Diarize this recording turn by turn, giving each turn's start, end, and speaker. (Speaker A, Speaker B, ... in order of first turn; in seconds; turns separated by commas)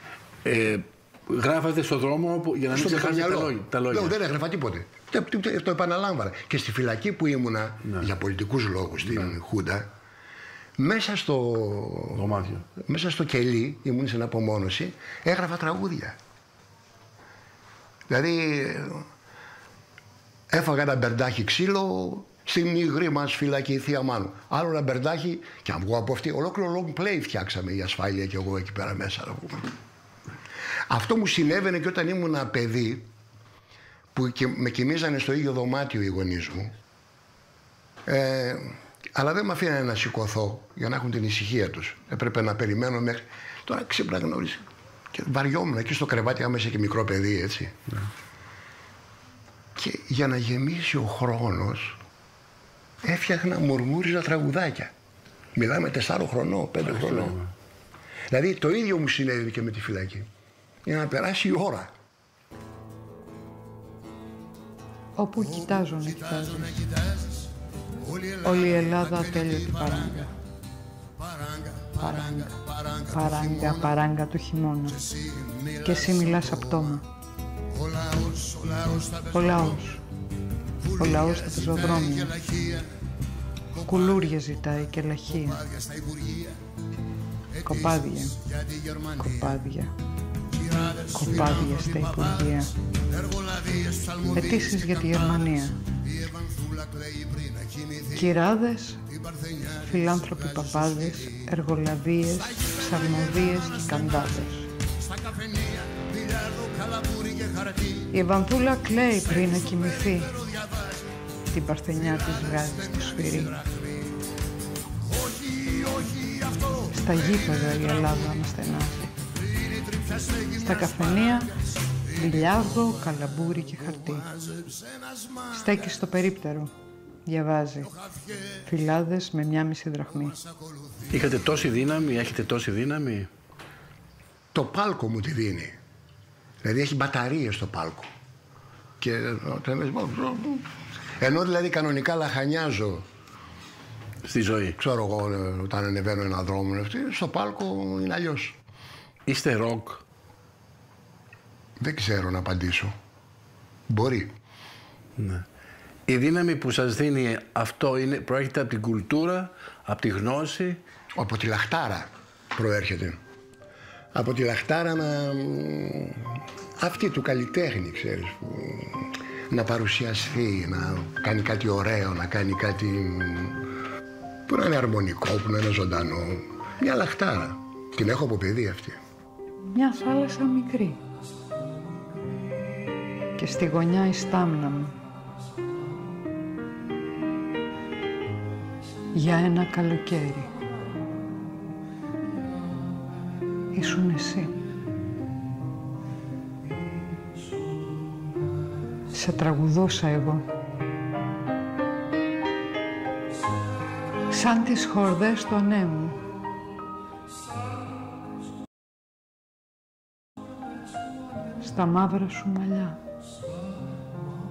Speaker A: 0.5-4.2, Speaker B: 2.7-9.9, Speaker B: 10.8-16.2, Speaker A: 12.1-12.7, Speaker B: 18.1-19.1, Speaker B: 20.5-29.7, Speaker B: 30.9-33.1, Speaker B: 34.1-36.7, Speaker B: 38.1-47.8, Speaker B: 49.8-52.0, Speaker B: 53.0-54.9, Speaker B: 55.5-57.4, Speaker A: 57.0-57.5, Speaker B: 58.3-60.3, Speaker B: 60.9-61.9, Speaker C: 65.2-66.8, Speaker B: 65.4-70.3, Speaker C: 68.4-70.3, Speaker B: 71.2-73.9, Speaker C: 72.0-72.5, Speaker C: 73.1-75.0, Speaker B: 75.0-76.6, Speaker C: 75.8-77.1, Speaker B: 77.7-79.8, Speaker C: 79.3-80.0, Speaker B: 80.9-83.0, Speaker C: 81.0-82.4, Speaker C: 83.8-85.7, Speaker B: 85.6-86.6, Speaker B: 87.6-89.5, Speaker C: 87.6-88.4, Speaker C: 89.2-90.0, Speaker B: 90.5-98.3, Speaker C: 91.1-92.7, Speaker C: 94.3-95.8, Speaker C: 98.1-99.0, Speaker B: 99.1-101.5, Speaker C: 99.8-104.7, Speaker B: 102.5-104.4, Speaker B: 105.0-108.1, Speaker C: 108.1-110.4, Speaker B: 109.5-111.1, Speaker C: 111.5-113.6, Speaker B: 112.1-114.2, Speaker B: 115.1-117.2, Speaker C: 116.9-119.1, Speaker B: 119.4-121.2, Speaker C: 120.5-121.6, Speaker C: 122.1-124.3, Speaker B: 122.1-122.6, Speaker B: 124.4-126.0, Speaker C: 125.5-126.7, Speaker C: 127.2-127.9, Speaker B: 128.1-128.6, Speaker C: 128.6-130.4, Speaker B: 130.4-131.2, Speaker A: 131.1-133.3, Speaker B: 134.5-135.8, Speaker B: 136.6-138.1, Speaker B: 139.0-140.7, Speaker B: 141.2-143.1, Speaker A: 144.2-144.8, Speaker B: 144.8-148.6, Speaker A: 149.3-150.0, Speaker B: 151.8-152.9, Speaker B: 153.9-154.3, Speaker A: 155.2-155.4, Speaker A: 156.1-160.8, Speaker B: 161.2-163.2, Speaker B: 164.1-173.6, Speaker B: 174.5-179.0, Speaker C: 179.7-181.0, Speaker C: 183.4-185.0, Speaker C: 189.1-190.5, Speaker C: 193.7-194.6, Speaker C: 199.1-200.5, Speaker C: 204.3-206.2, Speaker C: 211.6-213.0